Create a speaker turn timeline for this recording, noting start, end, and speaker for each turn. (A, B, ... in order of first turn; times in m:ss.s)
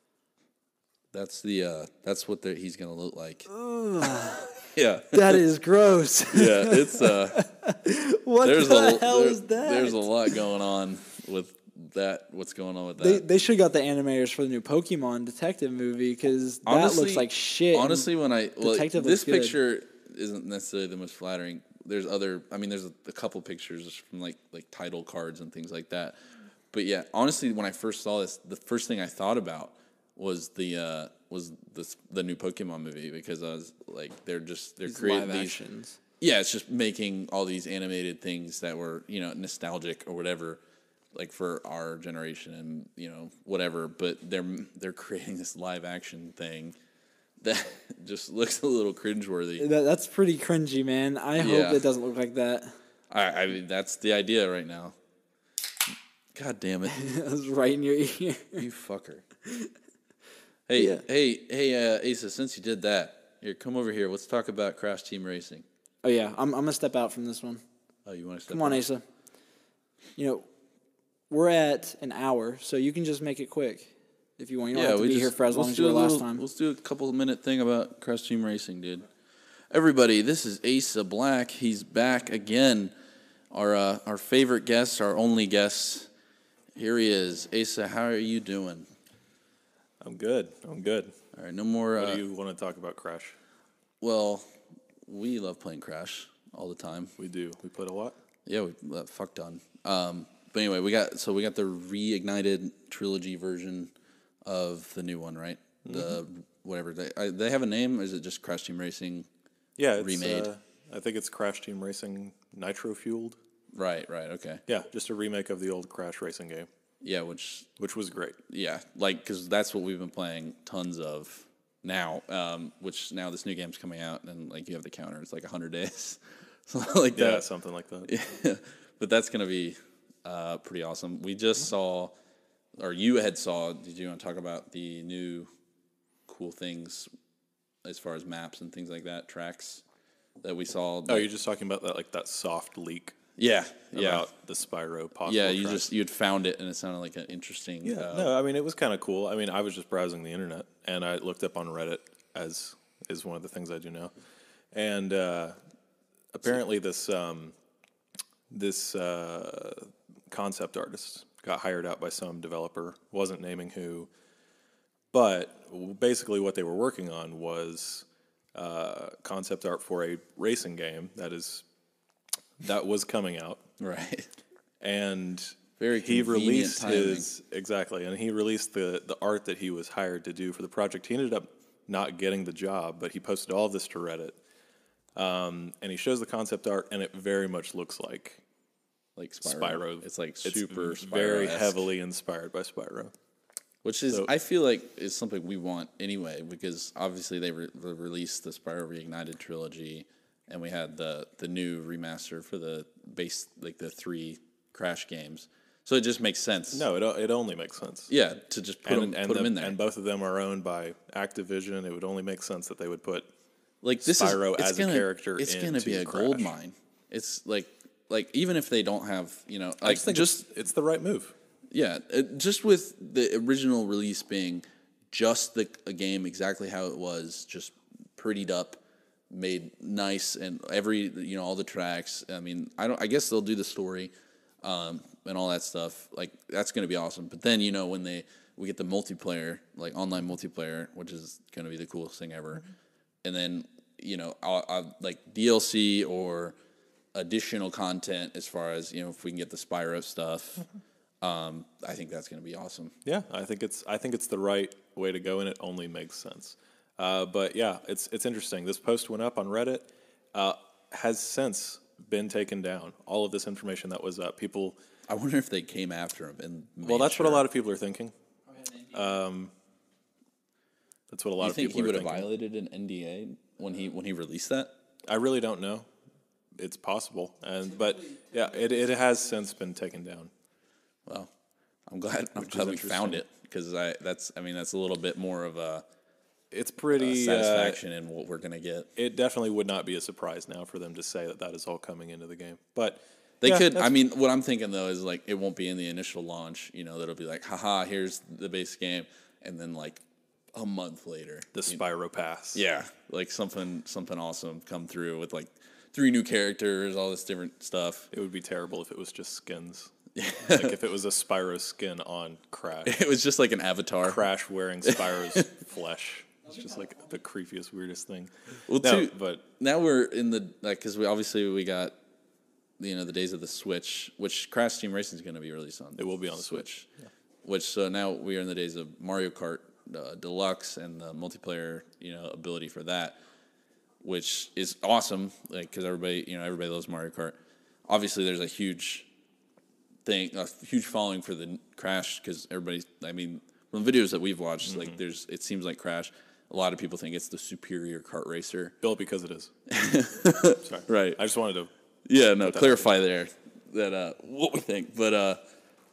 0:01.1-0:03.5 A
0:03.5-0:10.3 B
0:04.7-0:05.4 A
0:06.3-0:07.4 A
0:08.4-0:13.2 A
0:13.0-0:18.1 B
0:16.6-0:26.2 A
0:18.6-0:19.6 B
0:26.7-0:35.6 A
0:34.9-0:36.0 B
0:36.2-0:40.6 A
0:41.1-0:46.8 A
0:47.4-0:49.7 A
0:49.6-0:52.8 B
0:51.4-0:51.8 A
0:53.1-0:55.0 A
0:56.3-0:57.1 A
0:56.9-0:58.6 B
0:58.6-0:59.2 A
0:59.4-0:59.7 B
1:00.7-1:05.6 A
1:00.8-1:01.0 B
1:06.0-1:07.6 B
1:08.0-1:08.8 A
1:08.5-1:09.0 B
1:10.2-1:10.5 B
1:11.3-1:16.4 B
1:14.7-1:19.1 A
1:19.7-1:22.9 A
1:23.5-1:26.1 A
1:26.8-1:28.9 A
1:30.0-1:31.1 C
1:31.3-1:32.2 A
1:32.0-1:33.4 C
1:34.0-1:34.5 A
1:35.1-1:37.1 A
1:37.2-1:38.2 C
1:38.5-1:43.9 A
1:44.4-1:49.3 A
1:45.8-1:46.2 C
1:49.8-1:53.4 C
1:50.0-1:50.5 A
1:53.7-1:54.6 A
1:54.7-1:56.7 C
1:57.0-1:57.7 A
1:57.8-1:58.4 C
1:58.5-2:07.4 A
2:07.1-2:08.1 C
2:08.1-2:12.2 A
2:12.8-2:15.5 A
2:16.3-2:17.1 A
2:17.8-2:19.8 A
2:20.4-2:21.3 A
2:21.1-2:23.2 C
2:23.4-2:24.3 A
2:23.9-2:25.9 C
2:25.3-2:28.3 A
2:27.8-2:34.1 C
2:34.7-2:35.6 C
2:36.3-2:37.5 C
2:38.5-2:44.1 C
2:45.1-2:51.6 C
2:52.6-2:53.6 C
2:53.8-2:54.3 A
2:54.8-3:04.4 C
2:55.8-2:57.3 A
3:05.2-3:08.4 C
3:09.2-3:11.8 A
3:09.4-3:13.1 C
3:13.8-3:26.9 A
3:26.7-3:28.1 C
3:28.1-3:29.8 A
3:28.8-3:33.3 C
3:33.8-3:40.4 A
3:34.0-3:36.5 C
3:39.8-3:41.3 C
3:41.7-3:54.1 A
3:54.6-4:02.7 A
4:03.2-4:06.6 A
4:07.1-4:10.6 A
4:11.2-4:12.9 A
4:13.0-4:24.8 C
4:25.1-4:27.5 A
4:26.8-4:28.1 C
4:28.9-4:29.5 C
4:31.1-4:32.3 C
4:31.4-4:34.7 A
4:35.1-4:35.9 C
4:36.6-4:40.3 C
4:41.1-4:41.3 A
4:41.9-4:45.8 A
4:42.4-4:43.2 C
4:46.5-4:47.8 C
4:47.0-4:48.9 A
4:49.0-4:53.9 C
4:53.4-5:01.8 A
5:01.6-5:02.6 C
5:02.5-5:08.1 A
5:08.1-5:13.0 C
5:10.2-5:10.8 A
5:12.8-5:14.3 A
5:14.0-5:19.4 C
5:14.8-5:15.4 A
5:18.7-5:22.0 A
5:22.8-5:26.9 A
5:26.0-5:26.9 C
5:27.4-5:33.2 A
5:34.0-5:39.1 A
5:40.0-5:48.8 A
5:48.8-5:49.5 C
5:49.7-5:51.2 A
5:50.6-5:51.7 C
5:52.1-5:55.4 A
5:52.4-5:52.8 C